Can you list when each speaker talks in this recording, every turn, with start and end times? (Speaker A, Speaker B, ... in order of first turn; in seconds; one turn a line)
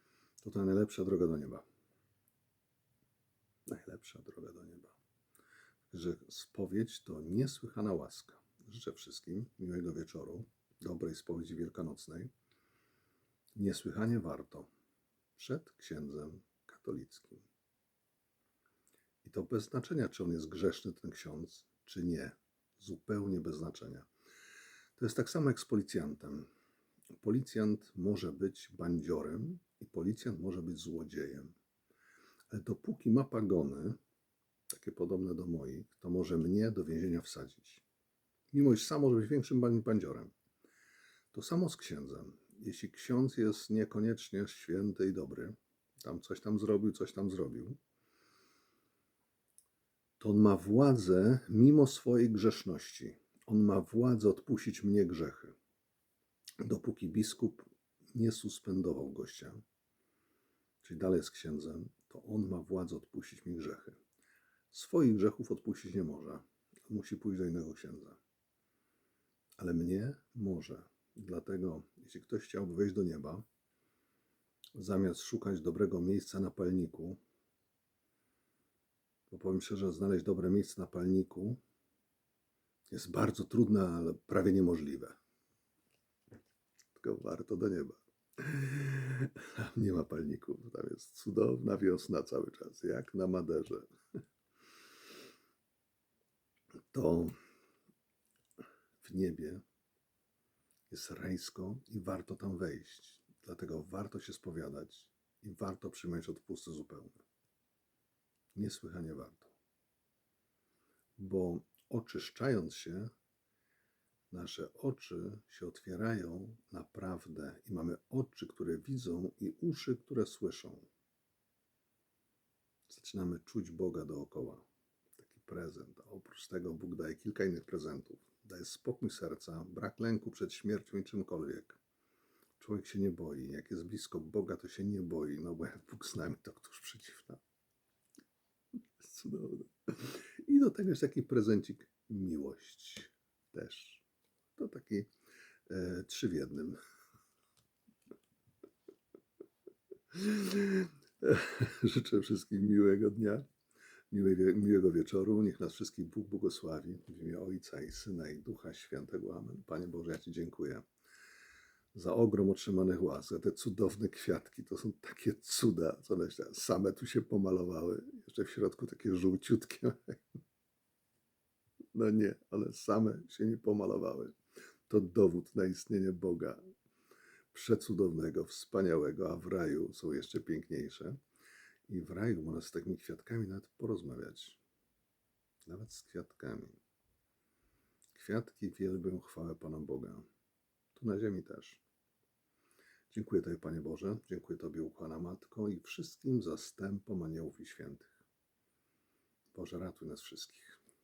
Speaker A: 0.4-1.6
Speaker A: 3.7-5.0
Speaker A: 5.9-12.3
Speaker A: 13.6-14.7
Speaker A: 15.4-17.4
Speaker A: 19.2-24.1
Speaker A: 25.0-26.5
Speaker A: 27.2-31.5
Speaker A: 32.5-34.0
Speaker A: 34.7-37.8
Speaker A: 38.5-40.3
Speaker A: 41.3-47.8
Speaker A: 50.2-55.5
Speaker A: 56.6-59.6
Speaker A: 60.8-64.0
Speaker A: 64.7-68.2
Speaker A: 69.6-73.5
Speaker A: 74.8-77.2
Speaker A: 79.3-81.6
Speaker A: 82.9-85.2
Speaker A: 87.0-93.9
Speaker A: 96.9-97.4
Speaker A: 99.0-99.6
Speaker A: 100.9-107.2
Speaker A: 108.5-109.5
Speaker A: 111.2-113.1
Speaker A: 114.3-120.9
Speaker A: 122.9-124.6
Speaker A: 125.2-131.8
Speaker A: 132.6-137.4
Speaker A: 139.0-144.0
Speaker A: 144.6-145.1
Speaker A: 145.7-146.8
Speaker A: 150.1-153.5
Speaker A: 154.1-160.9
Speaker A: 161.9-170.4
Speaker A: 171.9-174.3
Speaker A: 174.9-176.6
Speaker A: 177.5-181.2
Speaker A: 181.9-184.6
Speaker A: 185.7-186.8
Speaker A: 188.1-190.2
Speaker A: 190.9-191.8
Speaker A: 193.1-198.1
Speaker A: 199.5-200.8